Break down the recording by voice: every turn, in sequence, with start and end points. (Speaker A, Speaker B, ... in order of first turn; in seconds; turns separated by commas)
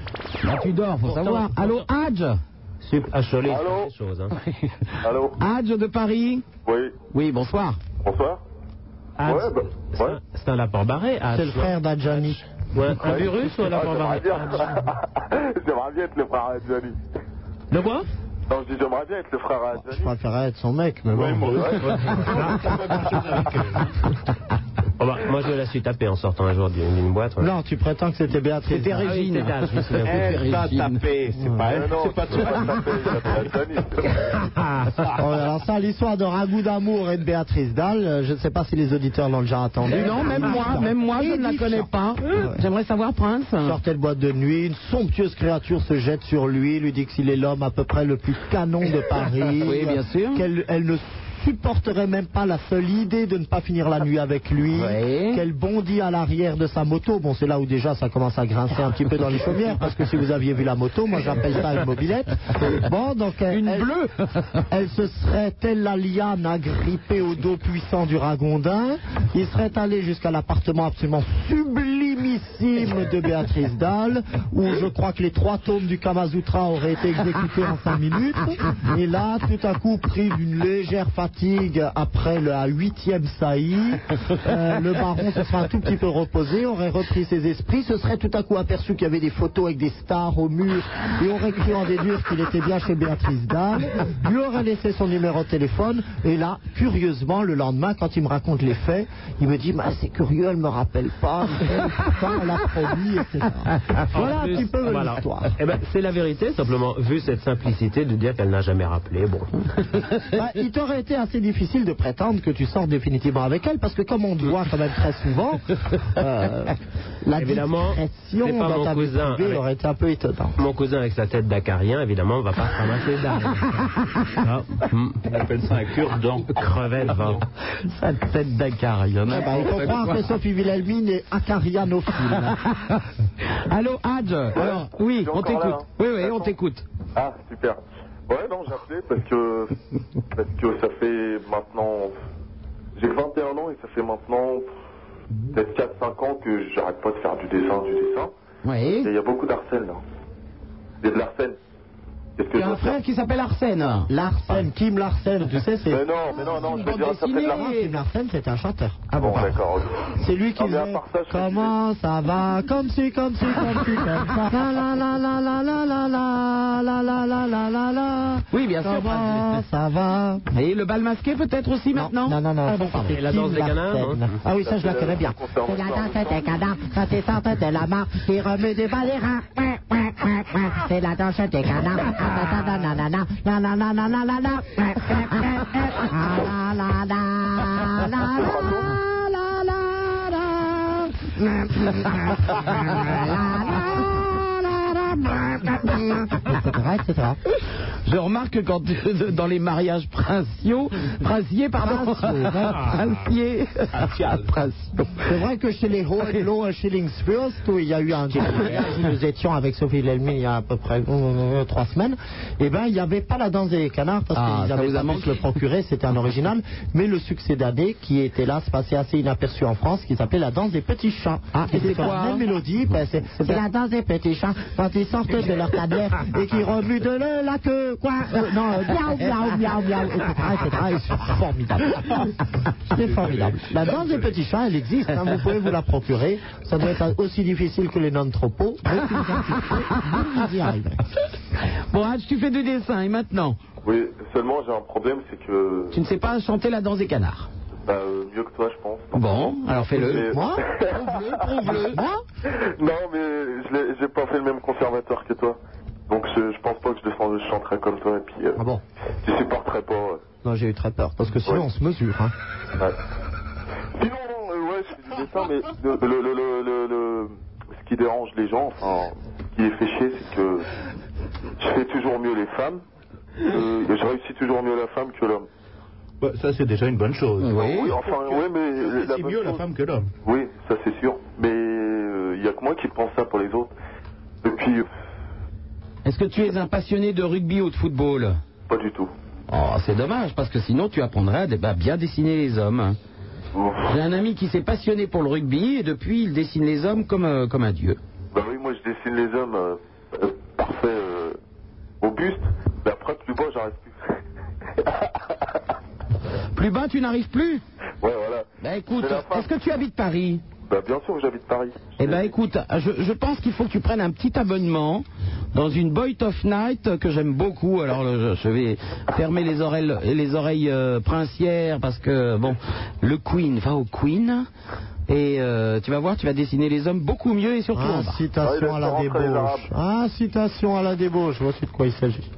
Speaker A: 0.4-2.4, Speaker B: 1.0-1.8, Speaker B: 2.8-4.3, Speaker C: 3.4-3.9, Speaker C: 5.0-5.4, Speaker A: 5.4-6.4, Speaker C: 6.7-6.9, Speaker A: 7.1-7.8, Speaker C: 8.0-8.4, Speaker B: 9.2-11.7, Speaker C: 9.2-10.2, Speaker D: 11.3-12.4, Speaker B: 12.7-14.7, Speaker C: 13.0-16.9, Speaker B: 17.7-18.1, Speaker C: 18.5-20.1, Speaker D: 19.8-22.1, Speaker E: 21.1-23.9, Speaker C: 21.5-21.8, Speaker B: 21.9-22.5, Speaker B: 25.0-27.5, Speaker D: 27.4-29.1, Speaker A: 28.7-31.0, Speaker B: 29.0-30.2, Speaker E: 30.0-32.9, Speaker D: 31.4-31.7, Speaker C: 31.7-34.0, Speaker D: 35.1-42.6, Speaker A: 39.9-43.8, Speaker D: 43.6-63.9, Speaker A: 49.6-50.4, Speaker A: 54.7-55.4, Speaker A: 63.5-64.6, Speaker D: 64.7-105.5, Speaker B: 104.1-109.5, Speaker D: 110.3-120.6, Speaker B: 117.3-119.6, Speaker B: 120.6-125.2, Speaker E: 125.2-126.5, Speaker B: 126.5-127.4, Speaker E: 127.1-127.4, Speaker A: 127.9-130.2, Speaker D: 129.3-132.6, Speaker A: 132.7-133.0, Speaker A: 133.6-136.8, Speaker C: 134.5-136.5, Speaker C: 137.1-139.8, Speaker C: 140.3-142.1, Speaker C: 142.9-144.7, Speaker C: 145.5-148.3, Speaker A: 148.6-149.1, Speaker C: 149.0-150.0, Speaker C: 151.0-151.6, Speaker C: 152.4-153.0, Speaker A: 152.5-154.1, Speaker D: 154.1-156.6, Speaker C: 155.9-157.7, Speaker A: 156.4-157.9, Speaker D: 157.4-170.5, Speaker C: 159.1-161.8, Speaker A: 168.5-169.6, Speaker A: 170.5-172.4, Speaker D: 171.9-197.4, Speaker B: 172.9-174.4, Speaker C: 174.5-176.5, Speaker A: 193.0-193.3, Speaker A: 198.0-205.3, Speaker D: 201.8-203.0, Speaker E: 203.9-204.5, Speaker D: 205.2-232.3, Speaker A: 214.3-215.4, Speaker A: 221.5-222.4, Speaker D: 232.9-241.0, Speaker E: 233.0-233.6, Speaker A: 241.9-243.6, Speaker C: 243.8-246.0, Speaker A: 245.9-247.5, Speaker C: 247.8-251.1, Speaker A: 249.1-252.0, Speaker D: 250.0-250.6, Speaker D: 251.6-252.2, Speaker C: 252.4-255.6, Speaker C: 256.1-258.6, Speaker C: 259.2-260.2, Speaker D: 260.4-262.3, Speaker C: 263.9-270.6, Speaker C: 271.6-272.8, Speaker C: 273.4-275.5, Speaker E: 276.2-280.1, Speaker A: 277.4-277.9, Speaker C: 277.6-279.6, Speaker C: 280.2-283.7, Speaker C: 284.4-284.9, Speaker A: 286.0-288.4, Speaker C: 288.7-289.1, Speaker A: 289.5-293.0, Speaker C: 293.5-293.9, Speaker A: 293.9-298.0, Speaker C: 298.3-301.4, Speaker C: 302.0-304.2, Speaker C: 304.8-305.4, Speaker A: 306.5-307.6, Speaker C: 308.0-309.5, Speaker A: 308.6-310.4, Speaker C: 310.7-312.3, Speaker A: 312.0-324.5, Speaker A: 325.1-328.2, Speaker D: 327.7-332.3, Speaker C: 328.4-329.7